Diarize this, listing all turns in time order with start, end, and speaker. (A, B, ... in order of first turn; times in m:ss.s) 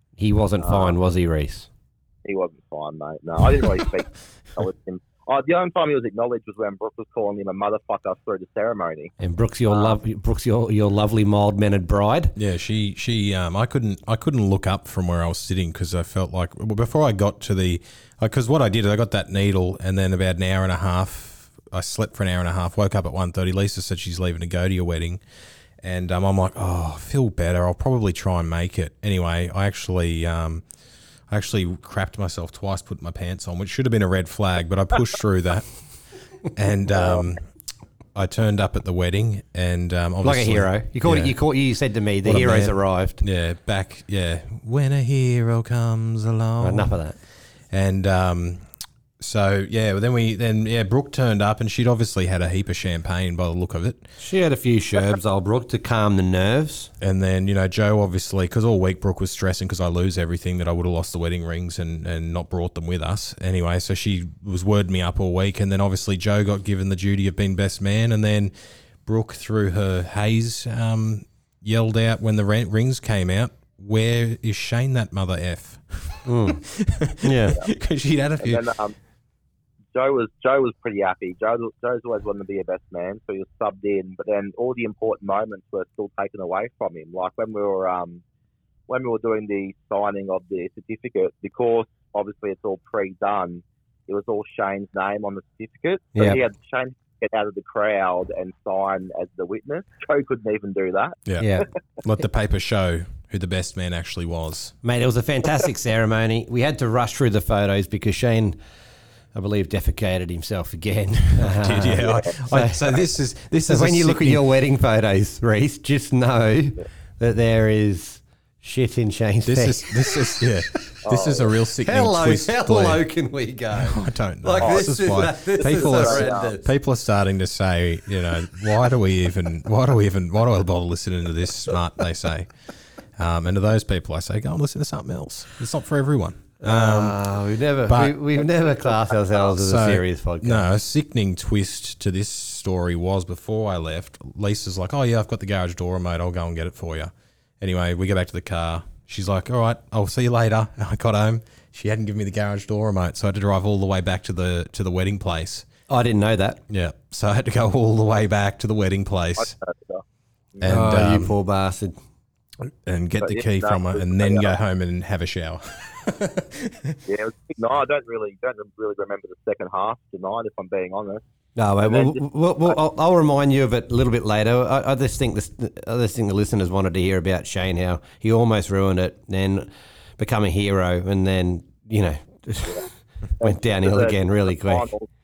0:00.2-0:01.7 A
0:00.6-0:01.0 B
0:02.2-0:09.1 B
0:09.2-0:12.4 A
0:09.7-0:10.0 B
0:12.4-0:25.2 C
0:25.8-0:30.6 C
0:31.3-0:35.7 C
0:36.5-0:37.4 C
0:38.2-0:41.4 C
0:40.2-0:43.2 A
0:42.2-0:47.0 C
0:46.6-0:47.2 A
0:47.7-0:48.6 C
0:49.2-0:54.1 C
0:54.2-0:56.9 A
0:57.0-1:08.5 C
1:09.0-1:18.6 C
1:16.3-1:16.6 A
1:17.2-1:17.6 A
1:18.4-1:19.0 B
1:19.9-1:28.2 B
1:28.9-1:41.2 B
1:36.2-1:36.4 A
1:41.3-1:44.8 C
1:41.4-1:41.7 A
1:44.8-1:48.6 A
1:49.3-1:53.0 A
1:51.4-1:54.4 C
1:53.7-2:00.5 A
1:59.4-2:03.0 C
2:01.0-2:01.4 B
2:01.8-2:06.7 A
2:03.8-2:12.5 C
2:04.6-2:04.9 B
2:05.6-2:06.5 B
2:13.2-2:17.2 C
2:16.6-2:20.6 A
2:17.9-2:18.2 C
2:19.5-2:35.7 C
2:35.9-2:36.6 A
2:36.7-2:39.6 C
2:39.4-2:40.0 B
2:40.6-2:41.3 C
2:40.6-2:42.0 A
2:42.8-2:47.0 C
2:43.2-2:44.6 B
2:47.1-2:51.2 B
2:51.6-3:02.8 A
2:51.8-2:52.8 B
3:03.4-3:04.9 A
3:03.4-3:05.1 B